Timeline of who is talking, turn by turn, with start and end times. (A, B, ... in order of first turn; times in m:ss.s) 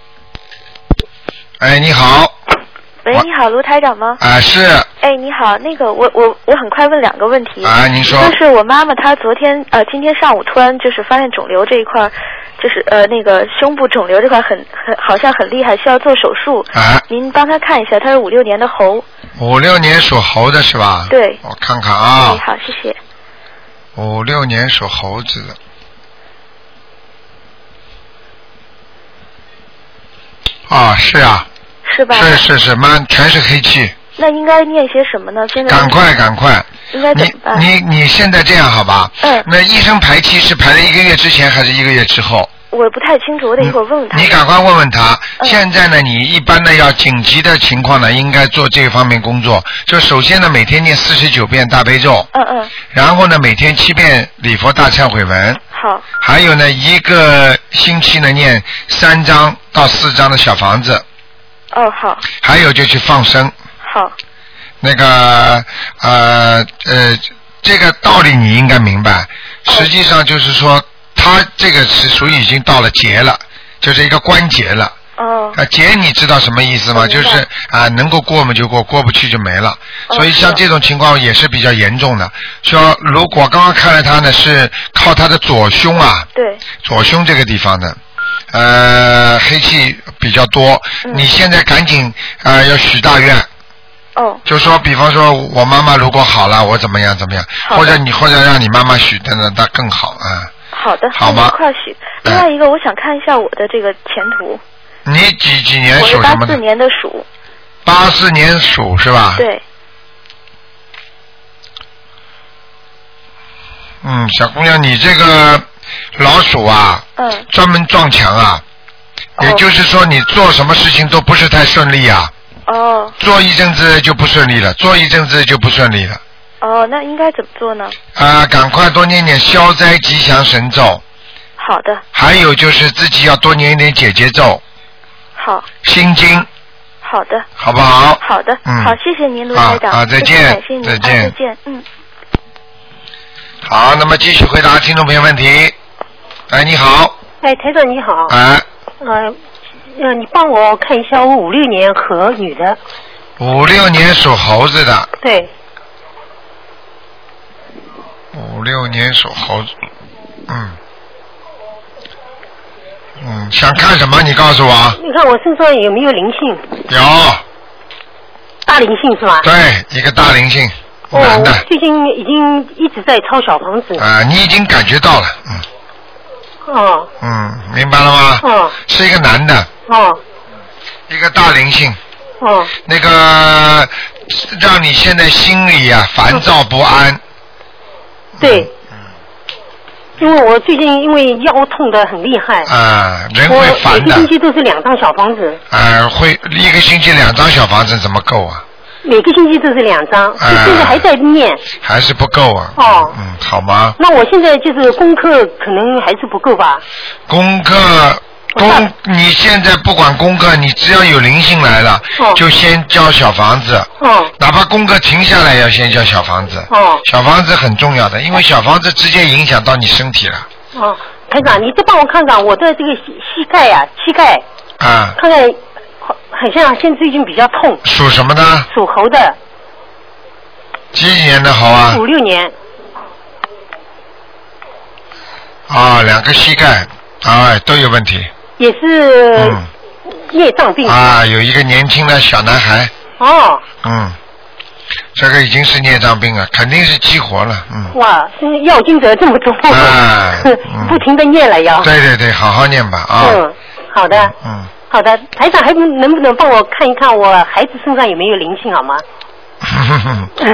0:01.6-0:02.3 A
0:03.0-0:04.2 B
0:04.2-0:04.9 A
0:05.0-0:19.0 B
0:07.6-0:08.4 A
0:16.7-0:17.0 A
0:19.4-0:22.4 A
0:21.1-0:21.4 B
0:22.1-0:23.0 B
0:24.0-0:25.6 A
0:30.7-0:31.5 A
0:31.9-0:32.4 B
0:32.1-0:33.9 A
0:34.2-0:35.9 B
0:35.7-0:42.5 A
0:36.9-0:37.6 B
0:42.7-0:44.4 B
0:43.6-0:52.3 A
0:52.3-0:52.7 B
0:52.9-0:55.6 A
0:55.7-0:56.1 B
0:56.2-1:01.0 A
1:01.7-1:02.3 B
1:02.4-1:03.5 A
1:03.8-1:04.1 B
1:04.8-1:14.9 A
1:15.2-1:15.6 B
1:15.5-1:26.3 A
1:16.9-1:17.4 B
1:20.1-1:20.6 B
1:26.3-1:26.6 B
1:26.8-1:28.0 A
1:28.5-1:33.5 A
1:34.2-1:34.4 B
1:34.4-1:40.5 A
1:37.6-1:38.0 B
1:40.7-1:44.6 B
1:41.1-1:41.6 A
1:45.0-1:46.6 A
1:46.0-1:47.2 B
1:47.8-1:49.4 A
1:49.4-1:49.6 B
1:54.0-1:55.6 A
1:56.2-1:58.6 A
1:57.2-1:57.4 B
1:59.4-1:59.6 B
1:59.4-2:02.3 A
2:02.7-2:03.1 B
2:03.2-2:06.2 A
2:06.6-2:07.9 B
2:08.1-2:11.0 A
2:11.6-2:12.0 B
2:12.1-2:14.6 A
2:15.4-2:15.7 B
2:15.8-2:16.5 A
2:17.0-2:17.5 B
2:17.6-2:19.0 A
2:18.2-2:21.8 B
2:19.5-2:21.3 A
2:23.6-2:25.7 A
2:26.5-2:27.2 A
2:27.4-2:28.3 C
2:28.3-2:28.6 A
2:29.0-2:29.4 C
2:29.9-2:32.8 C
2:33.4-2:35.1 A
2:35.2-2:35.5 C
2:38.3-2:39.7 A
2:40.5-2:40.8 A
2:43.2-2:45.0 A
2:45.0-2:46.6 C
2:46.9-2:47.4 A
2:48.6-2:49.5 C
2:49.4-2:51.6 A
2:51.1-2:54.0 C
2:54.0-2:55.6 A
2:56.6-2:57.1 C
2:57.2-2:59.7 A
2:58.4-2:58.7 C
2:59.9-3:00.2 C
3:01.1-3:02.0 A
3:02.4-3:02.7 C
3:02.8-3:07.2 A
3:08.4-3:08.7 A
3:08.4-3:08.7 C
3:10.2-3:12.7 C
3:12.7-3:14.3 A
3:13.5-3:15.6 C
3:15.7-3:18.6 A
3:19.0-3:21.6 C
3:20.4-3:21.0 A
3:21.8-3:24.0 A
3:22.8-3:23.2 C
3:24.0-3:26.8 C
3:27.3-3:33.9 A
3:28.6-3:28.9 C
3:34.0-3:34.3 C
3:34.4-3:40.5 A
3:36.7-3:37.0 C
3:40.7-3:44.4 C
3:44.8-3:45.2 A
3:45.2-3:47.8 C
3:47.8-3:48.7 A
3:48.7-3:49.4 C
3:50.9-3:52.0 A
3:51.9-3:52.5 C
3:55.7-3:58.3 A
3:58.6-3:59.6 C
3:59.4-3:59.7 A
4:00.3-4:01.2 C
4:00.8-4:02.9 A
4:03.2-4:03.6 C
4:03.8-4:04.2 A
4:05.1-4:07.9 A
4:07.9-4:11.9 C
4:09.7-4:11.0 A
4:11.8-4:13.4 A
4:13.2-4:14.3 C
4:14.1-4:14.7 A
4:14.9-4:19.0 C
4:19.6-4:20.3 A